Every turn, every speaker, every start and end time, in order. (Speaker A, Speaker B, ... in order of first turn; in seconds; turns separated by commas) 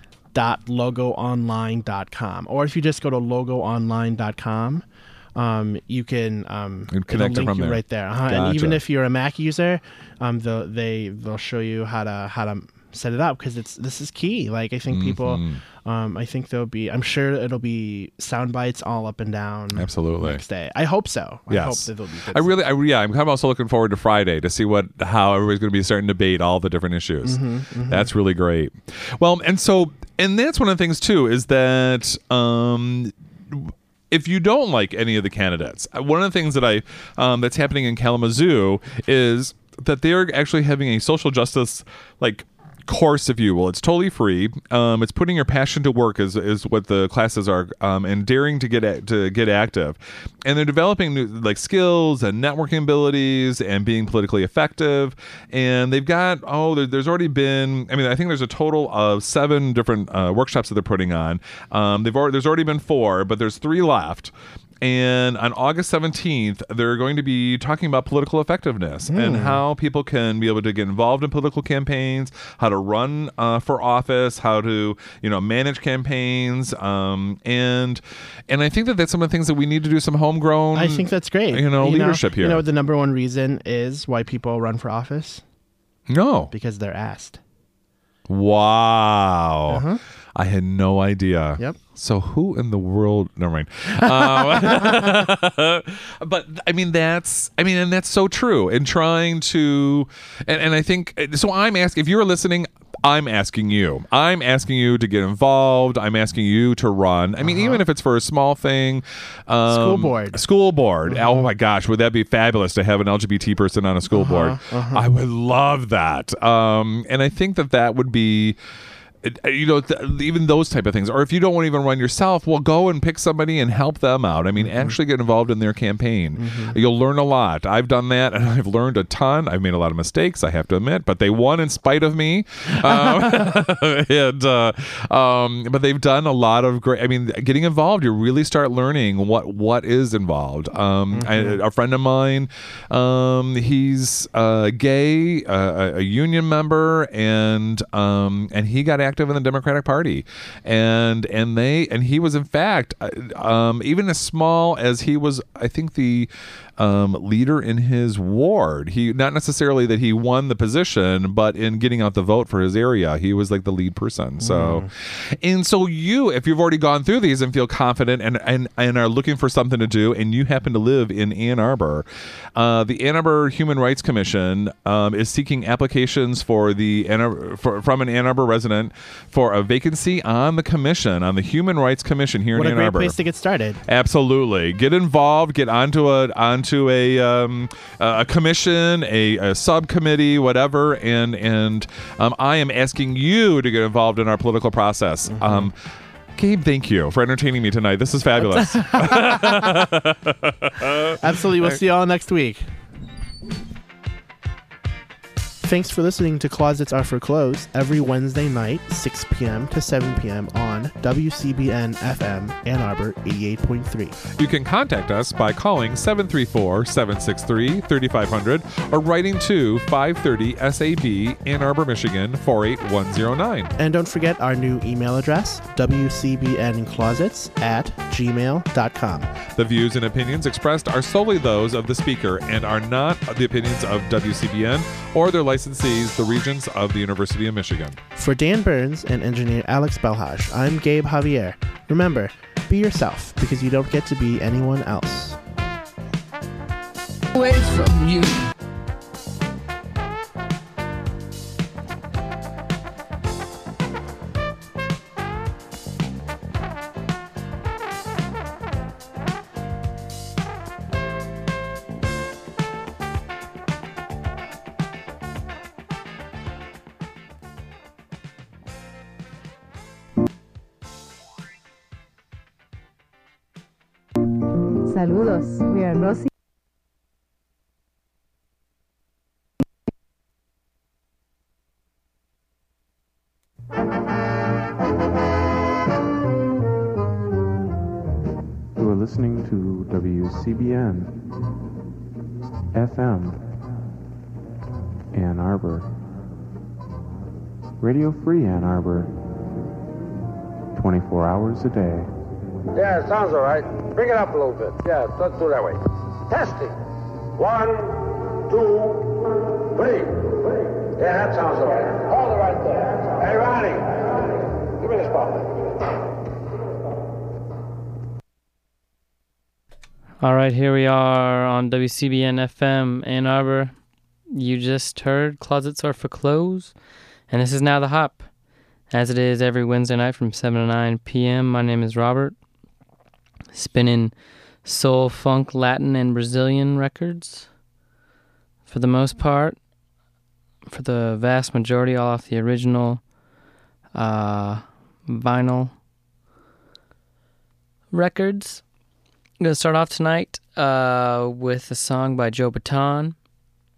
Speaker A: 0.3-22.6, Speaker B: 6.9-8.8, Speaker B: 14.9-15.6, Speaker B: 19.8-20.4, Speaker B: 21.5-82.7, Speaker A: 27.2-28.1, Speaker A: 69.1-69.6, Speaker A: 80.7-85.4, Speaker B: 86.1-86.5, Speaker A: 86.5-87.4, Speaker B: 88.3-89.8, Speaker A: 89.7-90.0, Speaker B: 90.4-118.6, Speaker A: 94.0-95.0, Speaker A: 107.4-107.8, Speaker A: 109.7-110.4, Speaker A: 111.1-111.5, Speaker A: 114.1-115.1, Speaker B: 119.2-183.2, Speaker A: 124.6-125.0, Speaker A: 126.4-126.8, Speaker A: 132.8-133.5, Speaker A: 141.1-141.6, Speaker A: 164.4-164.9, Speaker A: 182.6-183.8, Speaker B: 183.9-195.8, Speaker A: 195.3-195.7, Speaker B: 196.4-201.2, Speaker A: 198.4-199.7, Speaker A: 201.2-202.7, Speaker A: 205.6-214.2, Speaker B: 214.4-223.7, Speaker A: 223.8-229.3, Speaker B: 229.6-238.0, Speaker A: 238.2-245.4, Speaker C: 247.6-248.2, Speaker C: 274.9-276.3, Speaker D: 288.8-291.1, Speaker D: 292.7-293.4, Speaker D: 295.1-295.9, Speaker D: 297.8-299.1, Speaker D: 300.8-302.1, Speaker E: 302.7-306.7, Speaker E: 307.4-314.1, Speaker E: 314.8-315.6, Speaker F: 320.2-332.4, Speaker F: 333.5-337.6, Speaker F: 338.7-339.6, Speaker F: 340.7-343.1, Speaker F: 343.9-345.8, Speaker F: 347.9-348.7, Speaker F: 349.4-353.2